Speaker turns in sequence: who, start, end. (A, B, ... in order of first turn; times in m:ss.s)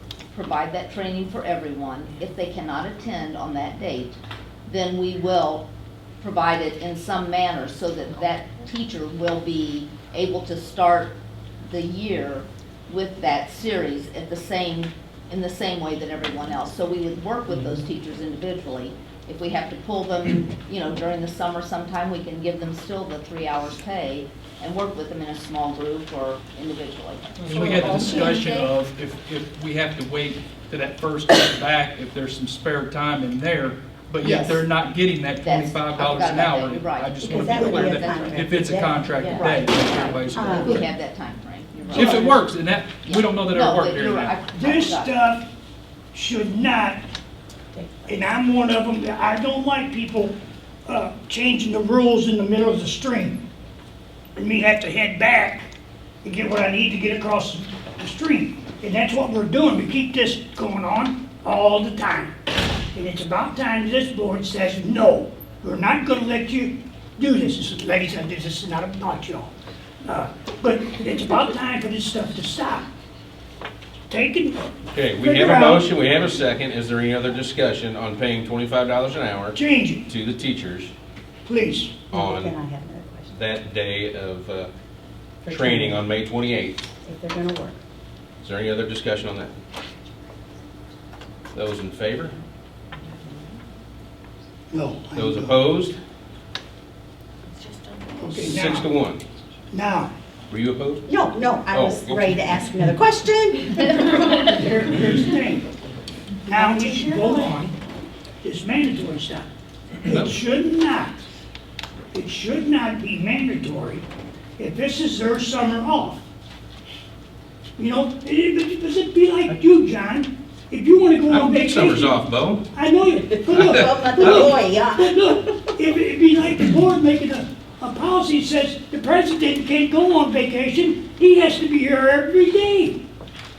0:00.3-0:05.7 A
0:06.2-0:28.4 A
0:27.4-0:40.8 B
0:27.5-0:28.7 C
0:27.9-0:28.3 D
0:34.2-0:34.7 A
0:35.4-0:38.6 A
0:37.2-0:39.4 E
0:39.2-0:42.4 A
0:40.3-0:40.9 E
0:41.9-0:44.4 B
0:43.0-0:45.1 A
0:44.5-0:45.5 D
0:46.1-0:47.0 D
0:47.7-0:48.2 E
0:48.1-0:53.4 D
0:54.3-0:55.7 D
0:56.2-1:02.3 D
1:02.9-1:09.5 D
1:10.0-1:12.9 D
1:14.1-1:15.8 D
1:14.9-1:20.9 F
1:19.5-1:20.1 D
1:21.4-1:22.0 D
1:22.1-1:22.6 F
1:22.1-1:23.4 E
1:23.3-1:24.7 F
1:25.4-1:26.0 E
1:25.5-1:26.8 F
1:27.0-1:27.8 E
1:28.4-1:29.6 F
1:31.5-1:32.4 F
1:34.7-1:35.6 D
1:35.1-1:36.0 F
1:37.5-1:38.5 C
1:38.2-1:38.9 D
1:38.3-1:39.2 F
1:39.7-1:40.1 D
1:40.5-1:41.1 F
1:41.1-1:43.9 E
1:41.7-1:42.4 F
1:43.8-1:45.7 D
1:46.4-1:47.7 D
1:46.5-1:47.6 E
1:48.4-1:49.5 D
1:50.0-1:51.2 D
1:50.1-1:50.4 F
1:52.1-1:54.0 D
1:54.6-1:56.2 D
1:57.8-2:02.2 D
2:01.3-2:02.6 F
2:02.7-2:13.0 D
2:03.1-2:05.3 E
2:03.5-2:04.6 F